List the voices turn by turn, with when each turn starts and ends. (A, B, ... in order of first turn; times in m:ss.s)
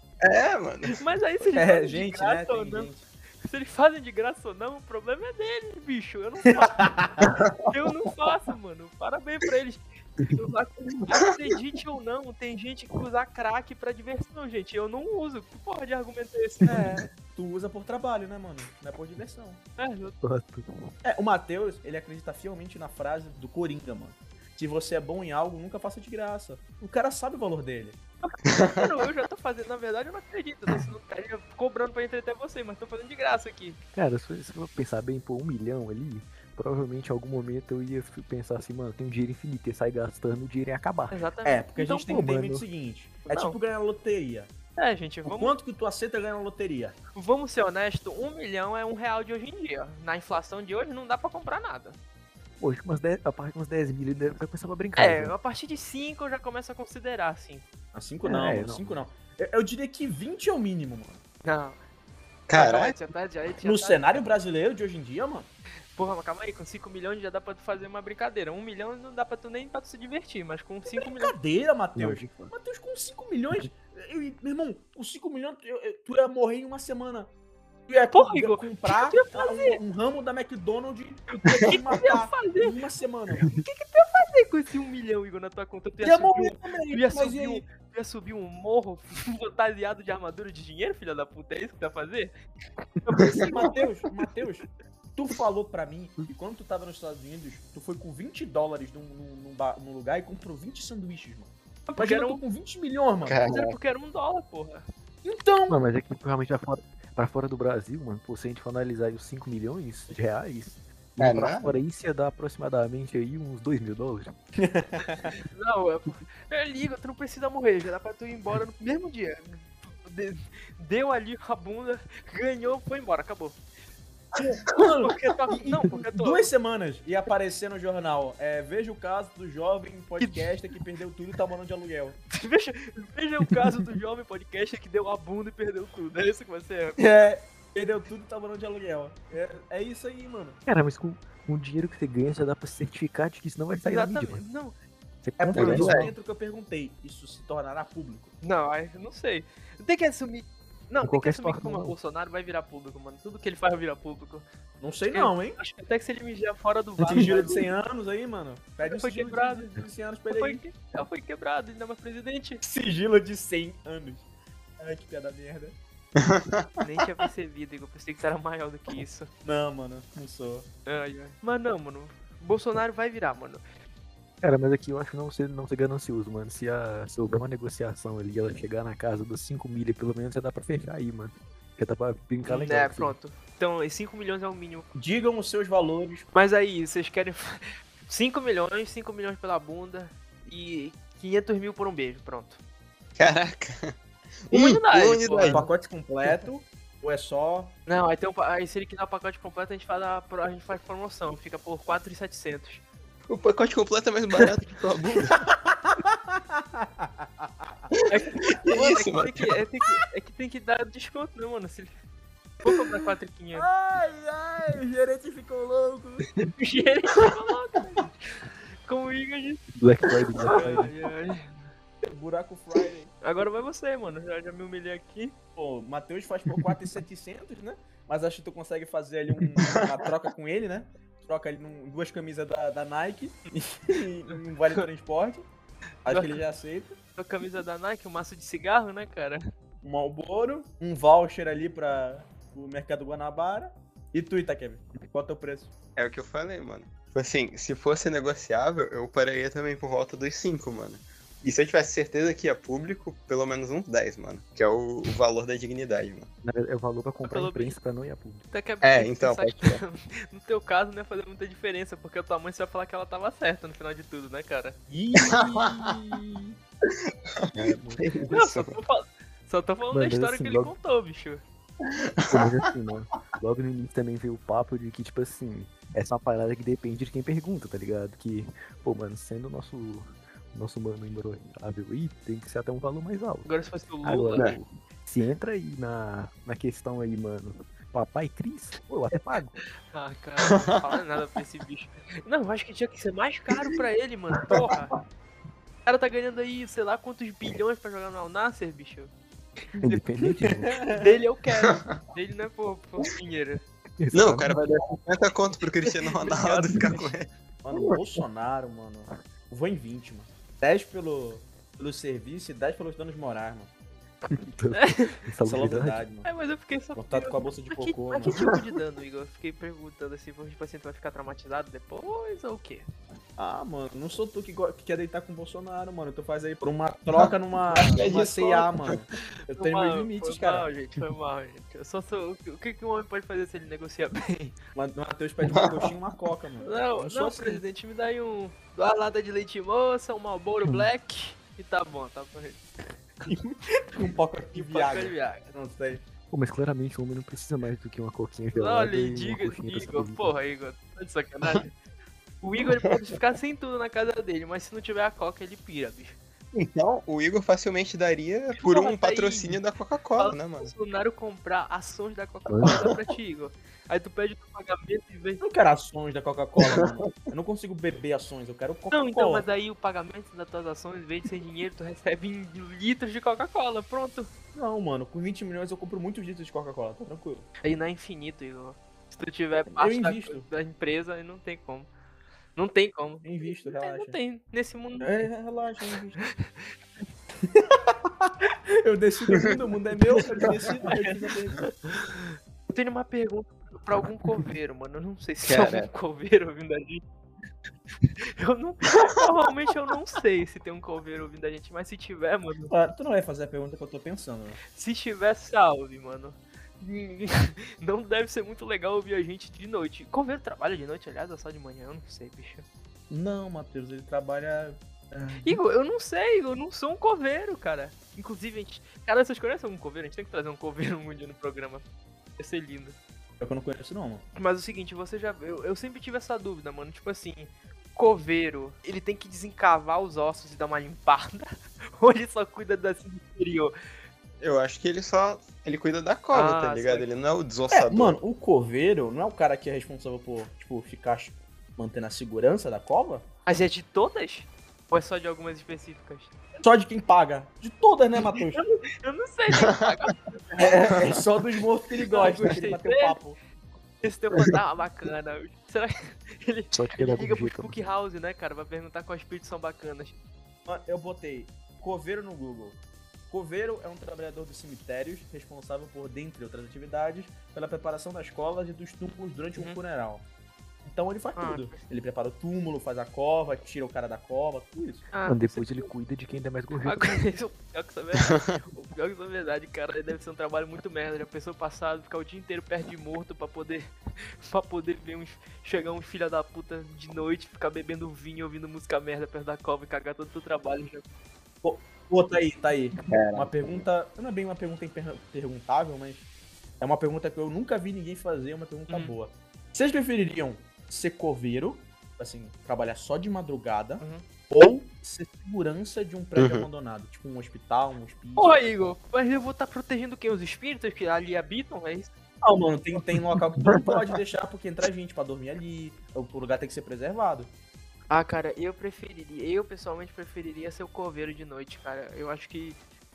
0:00.2-0:01.0 A
0:00.9-0:02.9 B
0:01.6-0:03.1 C
0:03.4-0:06.9 B
0:06.5-0:07.3 C
0:07.7-0:17.1 B
0:16.7-0:19.6 C
0:19.8-0:20.2 B
0:20.2-0:20.7 D
0:21.0-0:28.0 C
0:28.2-0:33.8 B
0:33.9-0:41.2 D
0:41.1-0:41.7 B
0:41.4-0:44.5 C
0:41.8-0:42.7 D
0:43.3-0:43.6 B
0:44.8-0:45.6 B
0:45.3-0:47.0 C
0:47.1-0:52.0 B
0:52.6-0:55.3 D
0:55.0-0:57.6 B
0:57.9-1:01.2 C
0:58.2-0:59.0 D
1:01.4-1:01.8 B
1:02.5-1:03.0 A
1:02.5-1:04.2 B
1:03.6-1:05.5 C
1:05.9-1:11.3 B
1:10.9-1:17.3 C
1:12.0-1:12.5 D
1:17.9-1:23.5 C
1:18.1-1:19.8 B
1:21.4-1:22.8 B
1:23.6-1:32.3 B
1:26.0-1:27.6 C
1:33.1-1:33.8 B
1:33.3-1:43.4 C
1:41.9-1:42.4 B
1:43.2-1:43.8 A
1:43.5-1:44.8 B
1:45.2-1:45.8 C
1:45.7-1:54.3 D
1:51.2-1:51.7 A
1:54.6-1:55.3 C
1:55.4-2:03.6 B
2:04.4-2:12.2 C
2:04.7-2:06.5 B
2:10.2-2:10.5 B
2:12.3-2:17.0 B
2:17.0-2:20.6 C
2:20.7-2:24.4 D
2:23.8-2:24.8 B
2:25.2-2:26.1 D
2:25.4-2:28.3 C
2:25.6-2:26.1 A
2:28.4-2:34.4 B
2:31.0-2:31.9 D
2:34.8-2:35.6 C
2:35.1-2:37.7 B
2:37.0-2:40.6 C
2:38.8-2:39.7 B
2:40.3-2:42.6 B
2:42.6-2:44.3 C
2:44.8-2:45.8 C
2:46.2-2:46.6 A
2:46.8-2:49.3 B
2:49.4-2:50.7 C
2:50.8-2:53.6 B
2:54.4-3:03.2 D
3:02.4-3:04.9 B
3:04.9-3:06.3 C
3:06.3-3:12.6 B
3:13.2-3:14.0 A
3:14.5-3:15.6 A
3:14.5-3:15.7 B
3:15.5-3:17.8 C
3:17.9-3:22.8 B
3:23.3-3:25.4 A
3:25.4-3:27.9 C
3:28.1-3:31.9 B
3:28.4-3:29.6 A
3:32.6-3:33.7 B
3:33.5-3:36.3 C
3:36.6-3:39.7 B
3:39.8-3:40.9 D
3:40.5-3:41.6 B
3:40.5-3:40.9 C
3:42.1-3:43.1 C
3:43.2-3:45.4 B
3:45.6-3:55.5 C
3:56.0-3:57.0 C
3:56.1-3:56.4 B
3:57.2-3:59.4 B
3:59.8-4:05.7 C
4:06.0-4:16.3 A
4:16.4-4:18.5 D
4:17.2-4:17.7 B
4:18.5-4:24.8 B
4:18.8-4:19.8 A
4:24.9-4:26.6 C
4:25.2-4:25.8 A
4:27.5-4:28.8 A
4:27.6-4:28.1 D
4:28.3-4:31.4 B
4:29.9-4:30.7 D
4:32.0-4:32.5 A
4:32.3-4:43.5 D
4:43.4-4:44.5 B
4:44.0-4:49.6 D
4:49.9-4:54.9 B
4:55.8-4:59.1 B
4:59.8-5:00.0 B
4:59.8-5:00.8 D
5:00.6-5:01.1 C
5:01.0-5:03.6 B
5:04.0-5:04.6 D
5:04.1-5:07.9 A
5:05.9-5:07.1 B
5:07.6-5:13.7 C
5:14.2-5:16.0 D
5:14.8-5:15.2 B
5:15.4-5:16.3 C
5:16.2-5:22.8 B
5:16.9-5:18.4 C
5:23.4-5:30.7 C
5:27.1-5:29.0 A
5:29.5-5:34.6 B
5:34.8-5:37.6 C
5:35.4-5:35.9 A
5:36.6-5:42.6 B
5:40.6-5:40.9 D
5:43.3-5:46.0 C
5:44.5-5:45.4 B
5:46.3-5:50.4 D
5:48.5-5:51.7 B
5:52.4-5:56.2 B
5:56.5-6:00.7 A
5:58.6-5:59.6 B
6:00.2-6:05.4 B
6:02.5-6:02.8 D
6:05.4-6:09.5 C
6:08.9-6:14.3 B
6:14.5-6:17.5 C
6:17.6-6:21.9 B
6:19.7-6:20.5 C
6:22.6-6:25.3 B
6:23.2-6:24.2 C
6:25.0-6:26.2 C
6:27.4-6:31.7 C
6:31.9-6:37.0 B
6:35.4-6:35.9 A
6:38.1-6:42.7 B
6:42.7-6:44.6 C
6:44.8-6:52.6 B
6:53.1-6:55.6 C
6:55.4-7:01.8 B
7:02.4-7:03.0 B
7:03.4-7:04.2 C
7:04.4-7:13.7 B
7:14.4-7:18.2 A
7:16.3-7:17.1 B
7:17.7-7:23.3 C
7:23.4-7:26.3 B
7:26.6-7:28.6 C
7:28.6-7:30.8 B
7:30.6-7:33.4 C
7:32.1-7:33.2 B
7:34.0-7:40.2 B
7:36.7-7:37.8 D
7:40.7-7:50.3 C
7:50.8-7:55.1 C
7:51.4-7:51.7 B
7:55.1-7:55.9 B
7:55.3-7:57.2 D
7:56.8-8:11.0 B
8:11.6-8:16.3 C
8:13.1-8:13.8 A
8:16.8-8:28.9 C
8:18.9-8:19.2 B
8:26.4-8:26.7 A
8:28.4-8:32.1 B
8:32.4-8:37.5 C
8:33.6-8:34.1 A
8:38.1-8:42.8 B